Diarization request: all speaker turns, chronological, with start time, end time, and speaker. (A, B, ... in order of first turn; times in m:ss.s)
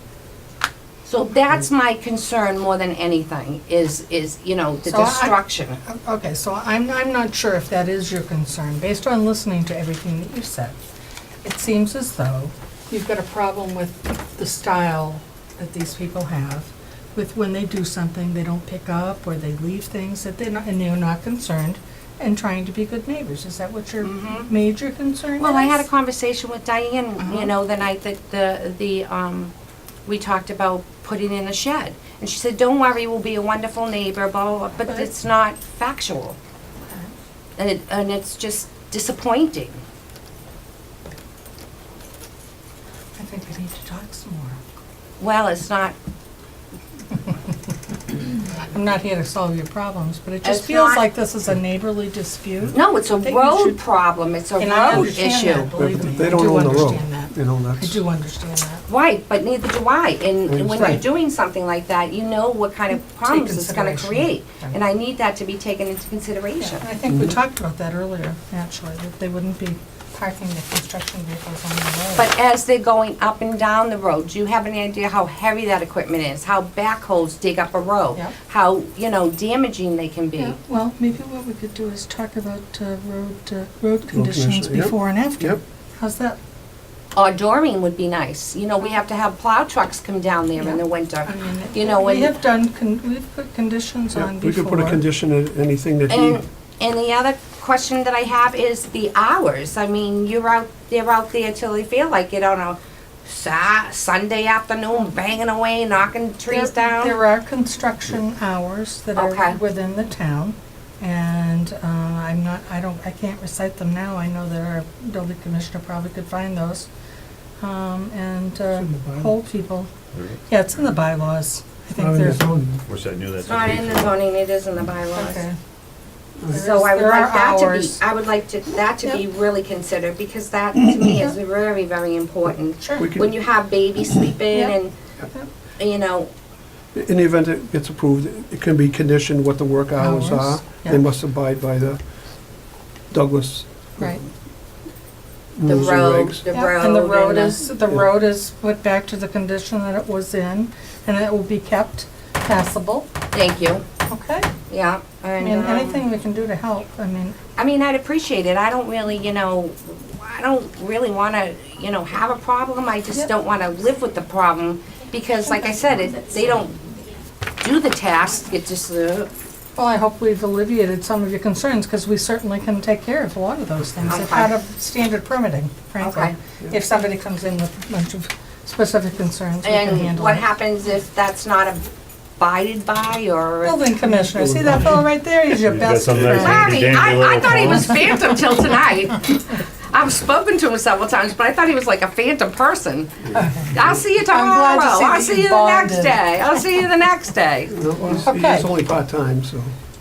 0:01.0-0:05.8 A
0:04.8-0:10.8 B
0:11.4-0:25.9 B
0:24.0-0:24.5 A
0:25.4-0:29.5 A
0:27.2-0:27.5 B
0:30.1-0:36.4 A
0:34.8-0:35.1 B
0:37.6-0:39.8 A
0:43.2-0:44.6 B
0:45.2-0:46.0 A
0:48.7-0:53.8 B
0:50.4-0:51.0 A
0:52.7-0:55.8 A
0:54.6-0:58.8 B
0:55.8-0:58.0 C
0:58.9-1:06.8 A
1:00.5-1:01.0 C
1:02.9-1:04.8 B
1:06.6-1:12.3 B
1:07.1-1:07.4 C
1:12.2-1:20.6 A
1:20.4-1:26.4 B
1:24.1-1:25.6 C
1:27.2-1:32.4 A
1:30.6-1:35.0 B
1:34.2-1:36.4 C
1:36.1-1:47.2 A
1:46.5-1:56.9 B
1:49.2-1:49.6 A
1:57.6-1:59.9 B
1:58.7-1:59.3 C
2:00.1-2:00.4 D
2:00.5-2:02.4 B
2:02.0-2:02.8 C
2:02.9-2:04.2 D
2:03.4-2:05.4 A
2:05.2-2:05.6 B
2:06.4-2:06.7 C
2:06.5-2:08.0 B
2:06.5-2:14.9 A
2:12.8-2:13.1 B
2:13.0-2:13.4 C
2:15.8-2:16.3 A
2:17.0-2:22.0 C
2:20.0-2:21.0 B
2:23.1-2:24.2 C
2:25.6-2:26.4 C
2:25.6-2:27.6 A
2:26.5-2:33.1 B
2:33.3-2:33.8 A
2:34.1-2:34.5 B
2:34.7-2:36.1 A
2:35.4-2:37.4 B
2:37.6-2:46.8 A
2:45.4-2:45.7 B
2:47.6-2:49.3 A
2:49.8-3:00.5 B
2:54.1-2:54.6 A
2:56.0-2:56.4 A
2:59.6-3:01.9 A
3:02.4-3:03.9 A
3:03.6-3:08.3 B
3:04.3-3:05.1 C
3:05.6-3:08.4 D
3:06.3-3:13.2 A
3:13.3-3:13.9 C
3:13.3-3:16.6 B
3:13.7-3:17.8 A
3:17.7-3:19.7 C
3:18.1-3:18.7 B